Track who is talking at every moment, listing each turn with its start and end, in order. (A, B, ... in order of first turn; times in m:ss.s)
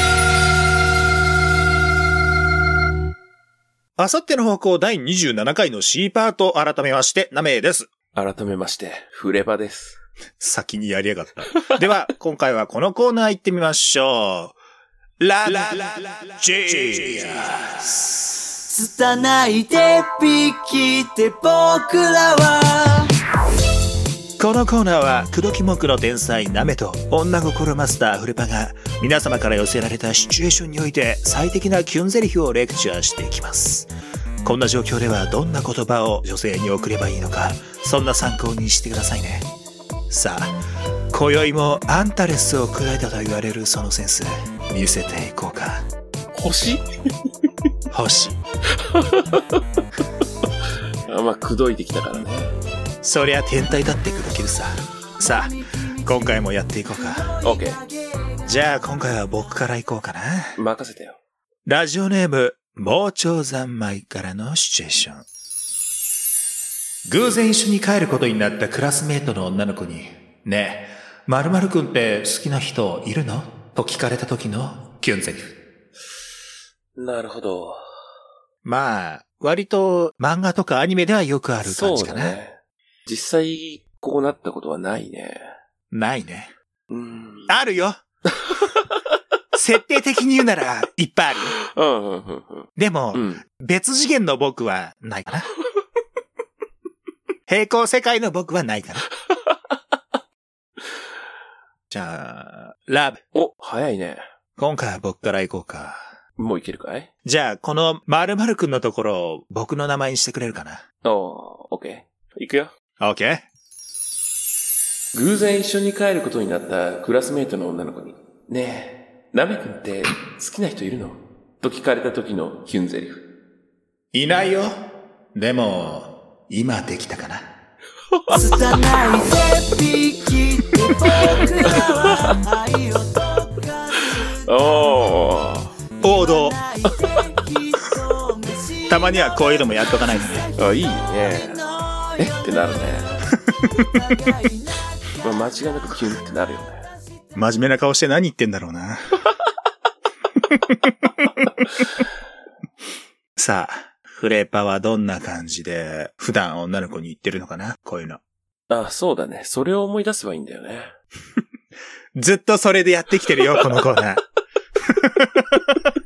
0:04.0-0:07.9 A
0:08.2-0:10.0 B
0:10.4-0:14.6 A
0:15.2-0:18.5 A
0:18.7-0:23.1 C
0:24.4-0:33.9 A
0:34.4-0:39.5 A
0:40.1-0:40.6 A
0:41.1-0:45.9 A
0:46.3-0:46.8 B
0:47.9-0:48.4 A
0:48.7-0:49.6 B
0:51.1-0:52.5 B
0:53.0-0:57.3 A
0:57.4-0:57.8 B
0:58.5-1:00.6 A
1:00.6-1:01.2 B
1:01.7-1:05.3 A
1:07.0-1:15.6 A
1:17.0-1:17.8 B
1:18.6-1:22.4 A
1:21.6-1:25.5 B
1:25.9-1:26.5 A
1:26.9-1:27.5 B
1:27.5-1:28.0 A
1:28.4-1:28.9 B
1:29.5-1:31.6 A
1:31.6-1:33.4 B
1:32.8-1:35.5 A
1:37.5-1:39.1 A
1:41.9-1:43.2 A
1:43.3-1:44.2 B
1:44.6-1:46.0 A
1:46.4-1:47.1 B
1:47.2-1:50.8 A
1:51.0-1:52.7 B
1:53.0-1:53.5 A
1:55.1-2:03.2 B
2:04.1-2:04.8 A
2:05.3-2:07.5 A
2:08.3-2:13.6 C
2:11.7-2:12.4 B
2:14.0-2:15.7 B
2:16.0-2:16.6 A
2:16.9-2:17.2 B
2:17.1-2:18.3 C
2:18.9-2:20.5 A
2:20.6-2:23.2 B
2:23.5-2:24.0 A
2:24.1-2:24.4 C
2:25.2-2:26.9 B
2:27.4-2:29.2 A
2:30.5-2:31.5 A
2:33.4-2:38.2 A
2:38.7-2:40.9 B
2:42.2-2:44.2 A
2:44.8-2:45.8 A